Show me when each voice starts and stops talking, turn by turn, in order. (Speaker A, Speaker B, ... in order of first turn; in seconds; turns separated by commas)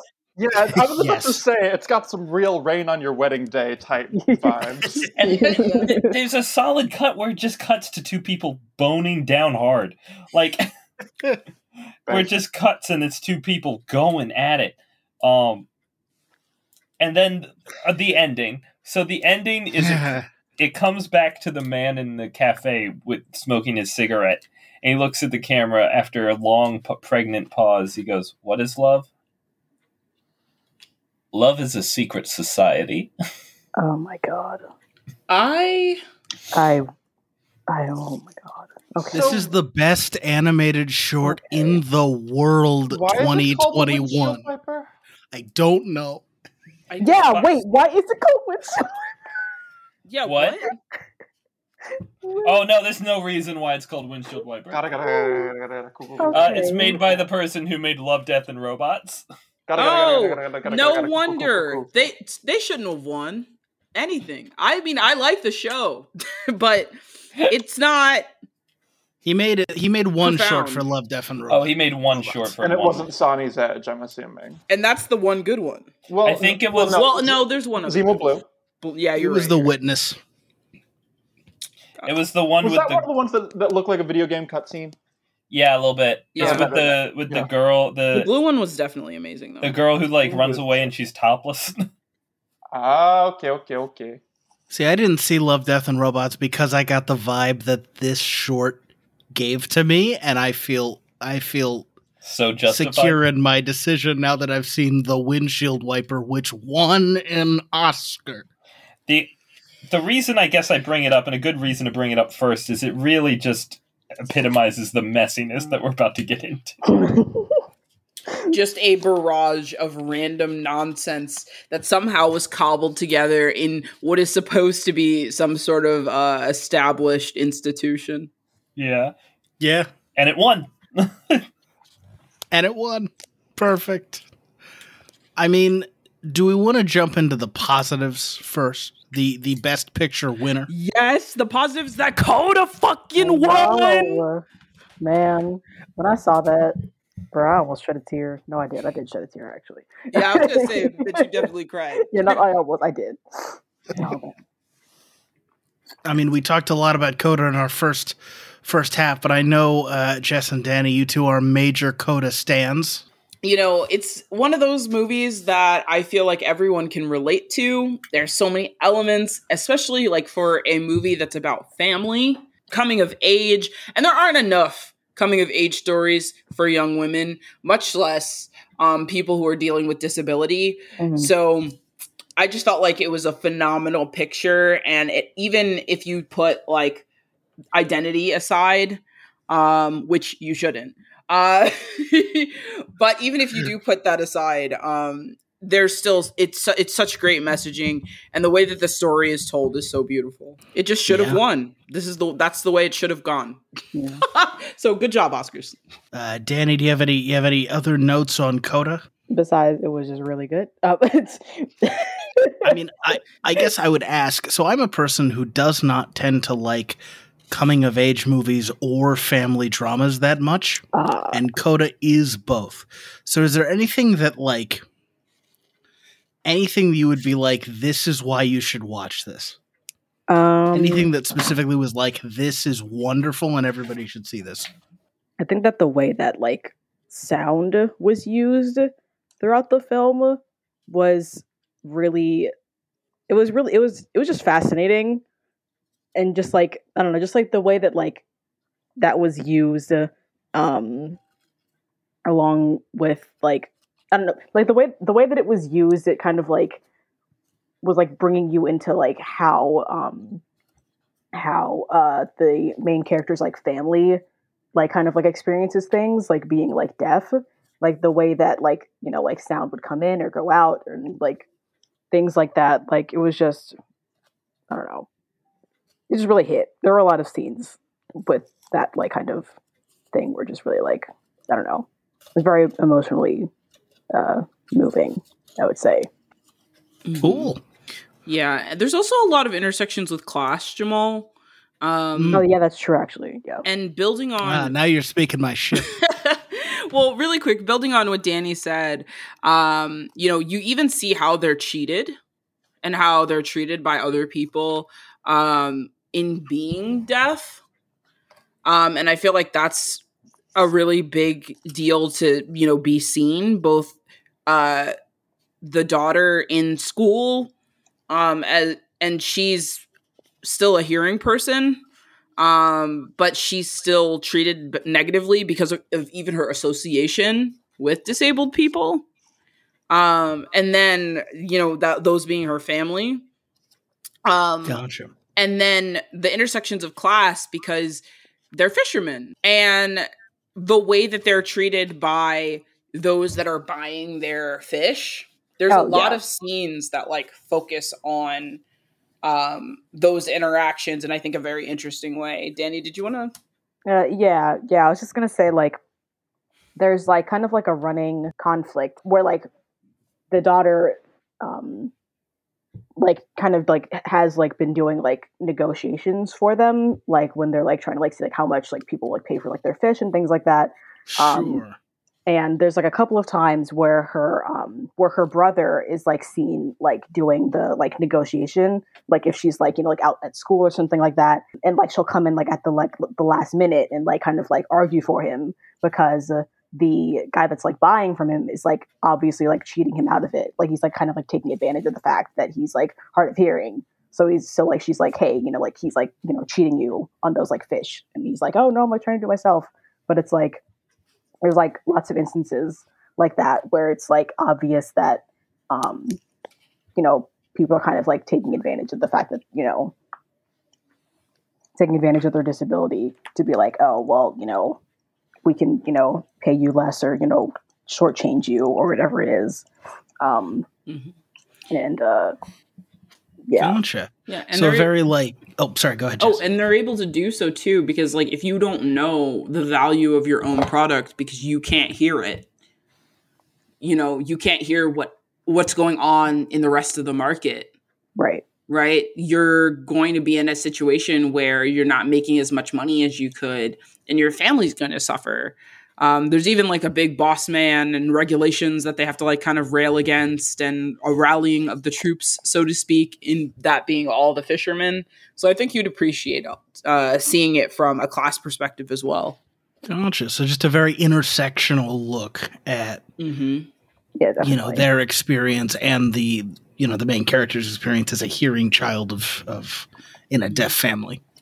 Speaker A: 0.4-5.1, Speaker B: 0.7-1.4, Speaker C: 4.1-6.2, Speaker D: 5.2-6.0, Speaker E: 5.2-10.7, Speaker A: 12.1-12.3, Speaker E: 12.1-15.7, Speaker E: 17.0-29.1, Speaker B: 19.8-20.3, Speaker E: 31.3-33.1, Speaker C: 33.8-34.6, Speaker D: 35.3-36.0, Speaker C: 36.5-36.9, Speaker C: 37.7-39.4, Speaker B: 39.1-44.5, Speaker A: 39.1-39.5, Speaker C: 41.2-41.8, Speaker A: 42.9-44.9, Speaker B: 45.3-46.3, Speaker D: 46.9-47.5, Speaker C: 47.0-49.1, Speaker D: 50.0-50.8, Speaker E: 50.2-50.6, Speaker C: 52.2-52.6, Speaker E: 52.4-54.8, Speaker A: 54.7-56.7, Speaker C: 55.0-55.5, Speaker C: 56.2-57.2, Speaker E: 56.3-59.2, Speaker A: 59.7-61.9, Speaker D: 59.8-68.3, Speaker B: 69.2-72.5, Speaker D: 70.2-70.9, Speaker E: 71.5-73.1, Speaker A: 72.6-74.6, Speaker D: 74.7-79.7, Speaker A: 76.1-78.5, Speaker E: 76.2-77.0, Speaker B: 79.2-80.2, Speaker E: 82.0-83.1, Speaker A: 82.6-85.0, Speaker E: 85.5-88.3, Speaker D: 86.4-86.8, Speaker A: 86.4-87.0, Speaker D: 88.1-89.8, Speaker E: 89.6-91.9, Speaker A: 90.3-90.9, Speaker A: 92.7-94.2, Speaker B: 94.7-98.8, Speaker B: 99.3-101.9, Speaker E: 102.2-103.2, Speaker B: 102.7-108.5, Speaker E: 109.9-116.8, Speaker C: 116.9-117.5, Speaker D: 118.5-128.3, Speaker E: 128.8-129.1, Speaker B: 129.6-129.9, Speaker E: 130.2-131.5, Speaker B: 132.5-134.2, Speaker B: 135.4-140.7, Speaker D: 140.7-144.3, Speaker C: 143.2-144.4, Speaker C: 145.0-146.8, Speaker C: 147.3-151.5, Speaker D: 150.1-152.4, Speaker C: 152.0-154.3, Speaker B: 156.1-163.1, Speaker D: 163.4-181.8, Speaker C: 181.0-181.3, Speaker D: 182.4-187.1, Speaker D: 187.7-203.6, Speaker B: 201.1-201.4, Speaker C: 203.9-204.2, Speaker D: 204.2-205.8, Speaker B: 206.1-209.1, Speaker C: 209.3-212.7, Speaker B: 212.6-217.0, Speaker B: 217.5-224.8, Speaker C: 220.9-221.4, Speaker B: 226.4-229.6, Speaker C: 230.3-231.1, Speaker B: 230.7-234.7, Speaker C: 235.4-242.5, Speaker C: 243.3-245.2, Speaker C: 246.2-248.2, Speaker C: 249.0-251.2, Speaker C: 252.2-256.8, Speaker C: 257.8-260.4, Speaker C: 261.3-264.2, Speaker C: 264.8-271.5, Speaker C: 272.1-273.8, Speaker C: 274.7-275.1, Speaker C: 276.1-279.5, Speaker C: 280.1-283.5, Speaker C: 284.1-286.1, Speaker D: 287.1-287.5, Speaker B: 287.2-287.6, Speaker D: 288.3-292.4, Speaker B: 292.2-292.4, Speaker C: 292.3-293.6, Speaker D: 293.6-294.7, Speaker B: 294.4-295.9, Speaker D: 295.9-302.2, Speaker D: 302.8-307.6, Speaker D: 308.6-310.0, Speaker D: 310.6-314.9, Speaker D: 315.6-317.5, Speaker D: 318.1-319.8, Speaker D: 320.4-321.8, Speaker D: 322.4-329.1, Speaker D: 329.9-333.2, Speaker D: 334.2-334.8, Speaker B: 334.6-335.1, Speaker D: 335.4-348.6, Speaker C: 345.7-346.2, Speaker D: 349.2-353.3, Speaker C: 353.9-355.8, Speaker C: 356.8-359.5, Speaker C: 360.3-361.9, Speaker C: 363.0-371.6, Speaker B: 371.1-371.8, Speaker C: 372.3-400.6, Speaker C: 401.4-406.2, Speaker C: 407.0-409.9, Speaker C: 411.8-414.8, Speaker C: 415.4-419.7, Speaker C: 420.2-420.7, Speaker D: 420.9-421.2, Speaker C: 421.7-422.4, Speaker C: 423.5-423.8, Speaker B: 423.6-426.4, Speaker D: 424.3-424.9, Speaker D: 426.2-432.5, Speaker D: 433.8-437.7, Speaker C: 438.2-438.4, Speaker D: 438.7-459.4, Speaker B: 459.9-463.1, Speaker D: 463.2-463.7, Speaker C: 464.2-464.8, Speaker B: 464.4-471.2